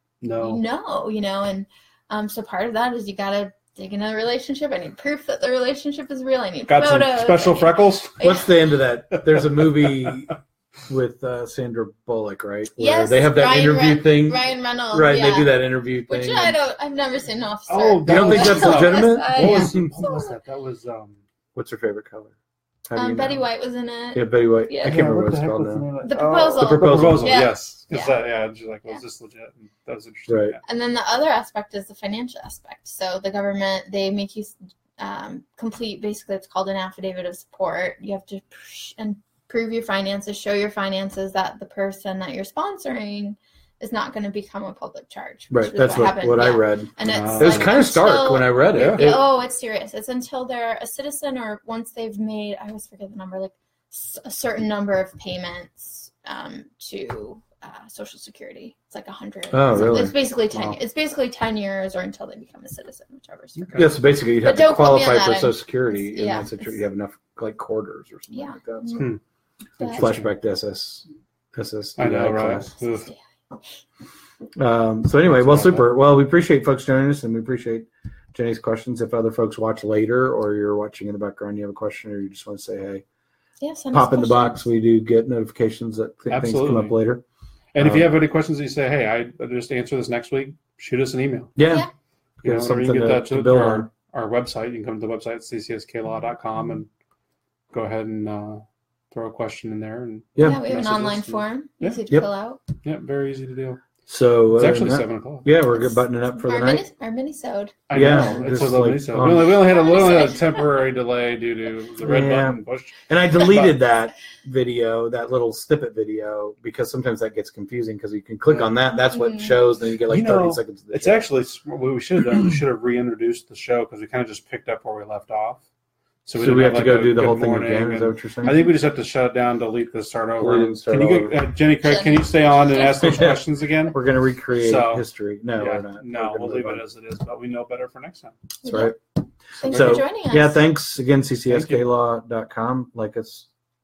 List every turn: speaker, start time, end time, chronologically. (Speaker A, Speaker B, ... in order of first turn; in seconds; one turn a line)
Speaker A: 0.2-0.6
Speaker B: 0.4-8.5
Speaker A: 6.7-8.3
Speaker C: 8.2-10.4
Speaker A: 9.1-10.2
Speaker C: 10.9-16.6
Speaker B: 12.8-20.4
Speaker A: 17.7-21.2
Speaker C: 18.1-20.1
Speaker C: 21.6-23.4
Speaker B: 23.0-25.1
Speaker C: 24.1-25.9
Speaker A: 24.8-30.6
Speaker B: 26.0-28.2
Speaker C: 26.6-27.4
Speaker C: 30.3-30.6
Speaker B: 30.6-66.8
Speaker C: 45.5-49.2
Speaker A: 47.0-47.8
Speaker A: 48.7-49.1
Speaker C: 59.5-60.8
Speaker A: 63.6-63.9
Speaker C: 63.8-69.1
Speaker B: 68.3-69.1
Speaker A: 69.0-69.2
Speaker A: 69.8-70.3
Speaker B: 69.8-70.1
Speaker C: 69.9-72.7
Speaker A: 72.0-73.1
Speaker B: 72.8-73.2
Speaker C: 74.6-83.0
Speaker A: 75.3-75.8
Speaker B: 83.6-84.6
Speaker C: 83.9-87.2
Speaker A: 86.3-87.0
Speaker A: 87.7-91.5
Speaker C: 87.8-88.1
Speaker C: 91.6-91.9
Speaker C: 92.4-93.9
Speaker A: 92.4-96.9
Speaker A: 97.7-102.0
Speaker C: 100.4-100.6
Speaker B: 100.4-102.6
Speaker A: 102.8-103.8
Speaker C: 104.1-106.9
Speaker A: 104.5-105.5
Speaker B: 105.7-108.5
Speaker A: 107.9-113.8
Speaker C: 107.9-109.7
Speaker B: 109.3-110.8
Speaker C: 112.0-121.3
Speaker A: 118.5-118.7
Speaker B: 119.0-119.6
Speaker A: 120.1-125.6
Speaker A: 126.3-134.0
Speaker C: 126.4-128.7
Speaker C: 130.4-131.4
Speaker B: 131.8-133.2
Speaker C: 133.0-136.8
Speaker A: 134.5-138.4
Speaker B: 138.6-138.9
Speaker C: 138.6-139.0
Speaker B: 139.6-140.6
Speaker C: 139.6-143.5
Speaker A: 139.6-140.0
Speaker A: 141.5-141.9